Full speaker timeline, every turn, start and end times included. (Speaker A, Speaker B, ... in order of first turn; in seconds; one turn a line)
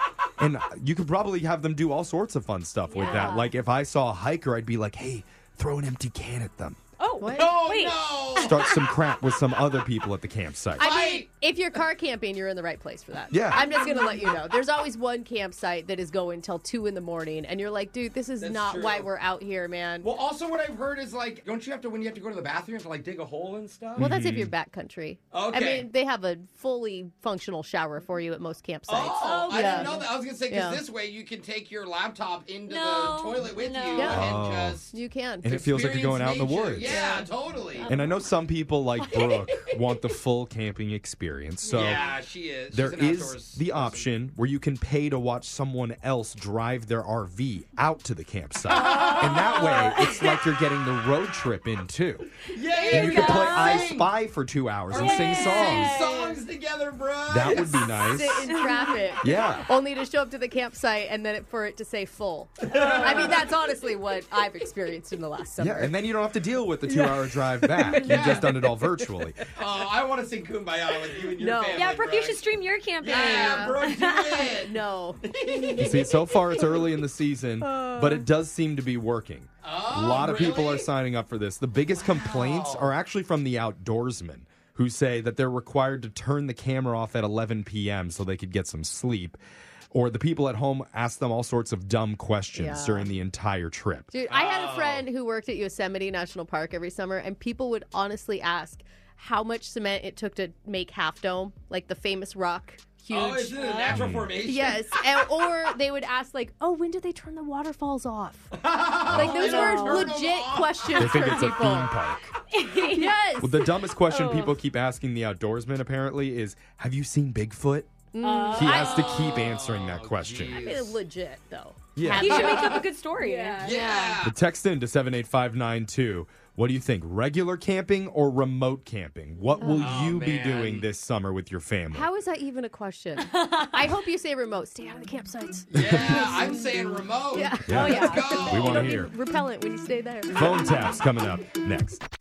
Speaker A: 0.4-6.8
Speaker B: 2.9-3.5
Speaker C: 3.0-3.4
Speaker B: 7.0-8.9
Speaker C: 7.2-7.6
Speaker D: 7.3-8.6
Speaker A: 8.4-10.9
Speaker C: 10.8-20.1
Speaker D: 10.8-11.3
Speaker A: 13.3-13.7
Speaker B: 13.6-14.3
Speaker D: 18.4-19.1
Speaker D: 20.0-24.1
Speaker A: 23.9-24.5
Speaker C: 24.0-30.8
Speaker D: 25.3-25.9
Speaker D: 28.9-34.9
Speaker B: 28.9-30.0
Speaker B: 32.7-34.3
Speaker C: 33.9-34.3
Speaker A: 34.1-34.8
Speaker C: 34.9-35.5
Speaker A: 35.4-37.0
Speaker D: 35.4-37.9
Speaker C: 36.9-37.3
Speaker C: 37.8-38.1
Speaker A: 37.9-42.0
Speaker D: 39.1-39.7
Speaker B: 41.6-42.1
Speaker D: 41.7-44.1
Speaker A: 42.7-52.3
Speaker D: 48.7-50.0
Speaker B: 48.7-50.4
Speaker D: 52.4-54.1
Speaker B: 52.8-53.9
Speaker A: 52.9-55.9
Speaker B: 54.9-56.4
Speaker D: 54.9-58.1
Speaker A: 57.3-58.5
Speaker C: 57.9-66.0
Speaker B: 58.5-59.0
Speaker A: 59.2-59.7
Speaker D: 62.6-63.4
Speaker B: 62.8-63.2
Speaker A: 65.6-69.5
Speaker C: 66.9-69.1
Speaker D: 67.9-68.6
Speaker D: 69.5-72.5
Speaker C: 71.4-71.9
Speaker B: 71.7-74.5
Speaker D: 73.0-76.4
Speaker C: 73.0-73.8
Speaker C: 74.6-76.2
Speaker A: 75.8-89.4
Speaker C: 77.8-78.2
Speaker D: 79.6-80.9
Speaker D: 82.0-82.9
Speaker A: 89.9-94.1
Speaker C: 92.5-93.1
Speaker C: 94.1-103.7
Speaker D: 94.3-95.0
Speaker D: 103.1-105.2
Speaker B: 103.5-104.0
Speaker A: 103.9-104.3
Speaker C: 104.4-108.6
Speaker D: 108.5-111.1
Speaker A: 109.1-109.5
Speaker C: 109.1-111.9
Speaker B: 109.1-110.1
Speaker A: 110.9-112.3
Speaker B: 112.5-113.3
Speaker C: 112.9-113.6
Speaker A: 113.4-117.9
Speaker B: 114.0-114.6
Speaker C: 118.1-118.9
Speaker B: 118.2-119.4
Speaker A: 118.5-120.7
Speaker D: 118.7-121.0
Speaker C: 120.5-124.2
Speaker A: 122.0-122.6
Speaker B: 122.1-124.1
Speaker D: 122.3-122.8
Speaker D: 123.6-124.3
Speaker A: 124.2-132.1
Speaker C: 129.6-130.1
Speaker D: 129.8-130.8
Speaker C: 131.9-136.8
Speaker B: 133.3-133.8
Speaker D: 135.7-139.0
Speaker A: 135.7-136.3
Speaker C: 137.3-140.9
Speaker A: 137.7-139.1
Speaker B: 137.7-138.3
Speaker A: 140.3-142.0